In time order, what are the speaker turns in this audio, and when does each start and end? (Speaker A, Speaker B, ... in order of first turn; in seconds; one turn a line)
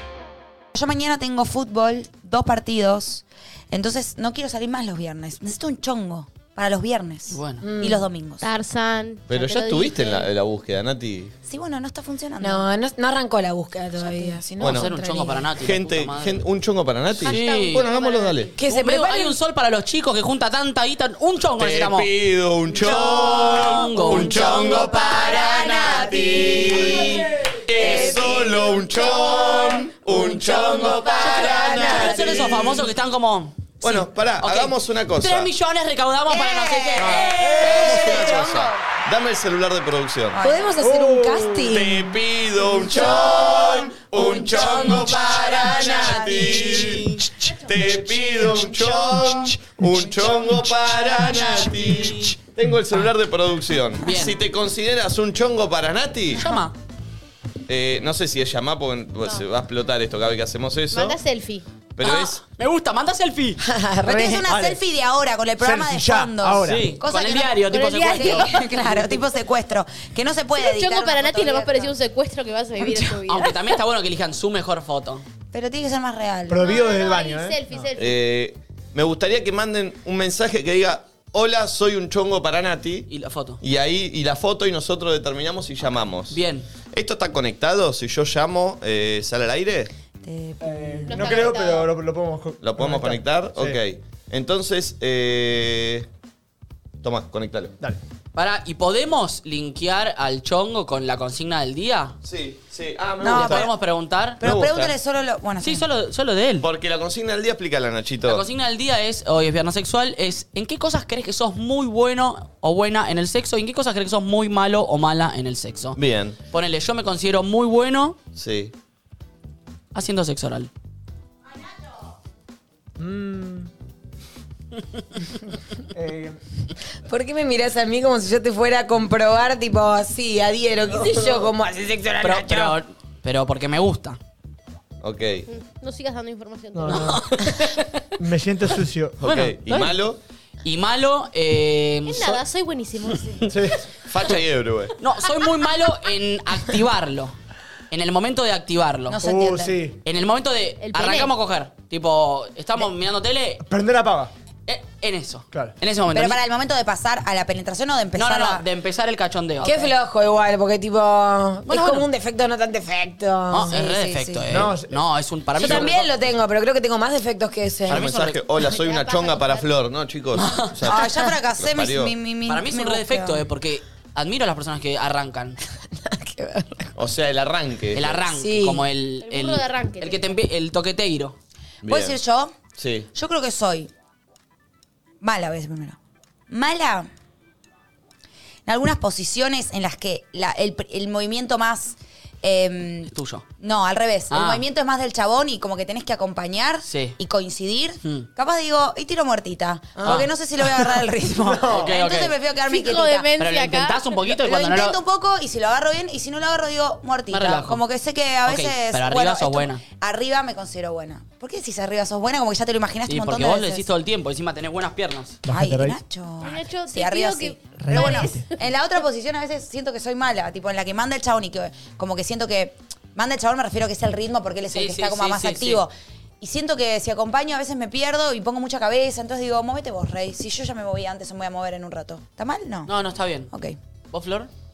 Speaker A: 0.7-8.4
Speaker B: 7.3-7.6
Speaker C: 7.6-8.1
Speaker D: 8.4-10.3
Speaker E: 9.3-11.3
Speaker A: 11.4-12.7
Speaker C: 12.4-15.5
Speaker A: 14.0-14.4
Speaker E: 14.6-14.9
Speaker B: 14.6-16.4
Speaker E: 15.6-18.5
Speaker B: 17.2-17.9
Speaker D: 17.2-18.5
Speaker C: 18.6-19.4
Speaker B: 18.6-22.1
Speaker E: 21.6-32.7
Speaker B: 22.7-25.8
Speaker C: 24.2-27.1
Speaker B: 26.7-27.1
Speaker C: 27.8-28.9
Speaker C: 29.4-31.1
Speaker A: 30.6-32.7
Speaker B: 31.1-38.1
Speaker C: 31.6-32.2
Speaker E: 33.8-35.5
Speaker C: 36.4-38.5
Speaker A: 37.0-38.7
Speaker F: 37.0-37.6
Speaker E: 37.6-40.4
Speaker A: 40.3-40.7
Speaker C: 40.4-42.2
Speaker F: 40.8-41.7
Speaker E: 41.7-56.5
Speaker A: 42.9-47.0
Speaker C: 44.3-46.4
Speaker B: 46.0-47.3
Speaker A: 48.5-50.5
Speaker B: 51.2-52.3
Speaker B: 54.0-54.4
Speaker B: 56.3-56.7
Speaker E: 57.7-61.2
Speaker D: 60.9-61.6
Speaker E: 62.0-62.4
Speaker B: 62.0-63.6
Speaker C: 63.6-64.5
Speaker A: 64.0-71.9
Speaker F: 64.3-64.8
Speaker F: 65.6-66.9
Speaker B: 66.6-68.5
Speaker D: 67.8-68.3
Speaker D: 70.6-73.5
Speaker A: 72.8-73.2
Speaker B: 73.3-75.2
Speaker A: 75.5-76.7
Speaker F: 76.5-77.6
Speaker D: 76.6-78.2
Speaker E: 78.0-83.1
Speaker B: 83.1-83.6
Speaker E: 83.6-89.9
Speaker B: 86.3-86.7
Speaker A: 90.2-91.4
Speaker F: 90.6-93.8
Speaker D: 91.1-91.9
Speaker E: 92.6-96.1
Speaker E: 97.0-97.8
Speaker B: 98.3-102.2
Speaker E: 102.2-103.7
Speaker A: 103.2-103.7
Speaker B: 103.2-104.4
Speaker A: 104.4-105.8
Speaker E: 104.4-105.0
Speaker B: 105.6-106.7
Speaker E: 106.6-108.5
Speaker B: 108.2-116.0
Speaker E: 115.9-116.4
Speaker B: 116.5-118.2
Speaker E: 118.3-118.7
Speaker B: 119.9-120.7
Speaker F: 123.0-123.7
Speaker F: 125.9-126.4
Speaker C: 127.1-132.8
Speaker F: 130.9-131.5
Speaker B: 132.2-134.2
Speaker E: 135.0-135.4
Speaker D: 135.5-137.2
Speaker F: 136.7-137.2
Speaker B: 136.9-137.9
Speaker F: 138.2-139.2
Speaker E: 139.2-140.2
Speaker B: 139.2-140.0
Speaker B: 140.6-142.4
Speaker D: 142.1-143.5
Speaker F: 143.5-143.8
Speaker E: 144.0-144.9
Speaker B: 145.0-147.3
Speaker B: 147.9-149.2
Speaker A: 149.1-149.8
Speaker F: 149.2-150.0
Speaker B: 150.0-153.6
Speaker D: 150.8-151.3
Speaker F: 153.6-154.3
Speaker B: 154.7-156.4
Speaker A: 156.1-158.7
Speaker B: 158.2-159.9
Speaker C: 159.6-164.6
Speaker B: 161.7-162.1
Speaker B: 163.5-166.1
Speaker F: 164.5-164.9
Speaker C: 165.5-168.1
Speaker B: 167.9-168.4
Speaker E: 167.9-172.2
Speaker D: 168.6-169.7
Speaker B: 170.3-170.8
Speaker A: 170.8-173.4
Speaker B: 172.5-175.6
Speaker C: 175.8-176.9
Speaker E: 176.9-178.2
Speaker B: 177.9-181.4
Speaker C: 178.3-178.8
Speaker D: 179.2-180.3
Speaker E: 181.8-182.2
Speaker A: 181.8-182.6
Speaker E: 182.8-183.1
Speaker A: 183.1-183.9
Speaker A: 185.2-186.0
Speaker A: 186.5-187.1
Speaker A: 188.7-203.3
Speaker B: 193.1-193.4
Speaker B: 194.3-194.6
Speaker B: 196.8-197.2
Speaker B: 198.0-198.3
Speaker C: 199.9-200.3
Speaker B: 200.0-200.3
Speaker F: 201.4-201.9
Speaker B: 201.7-202.3
Speaker D: 202.7-204.2
Speaker B: 203.4-205.0
Speaker A: 204.4-213.9
Speaker B: 207.3-207.8
Speaker B: 208.4-209.8
Speaker B: 213.1-215.4
Speaker F: 215.4-216.0
Speaker A: 215.5-232.9
Speaker D: 216.4-218.5
Speaker F: 217.8-218.4
Speaker B: 224.7-225.8
Speaker B: 232.9-233.5
Speaker A: 233.5-233.8
Speaker B: 234.1-234.5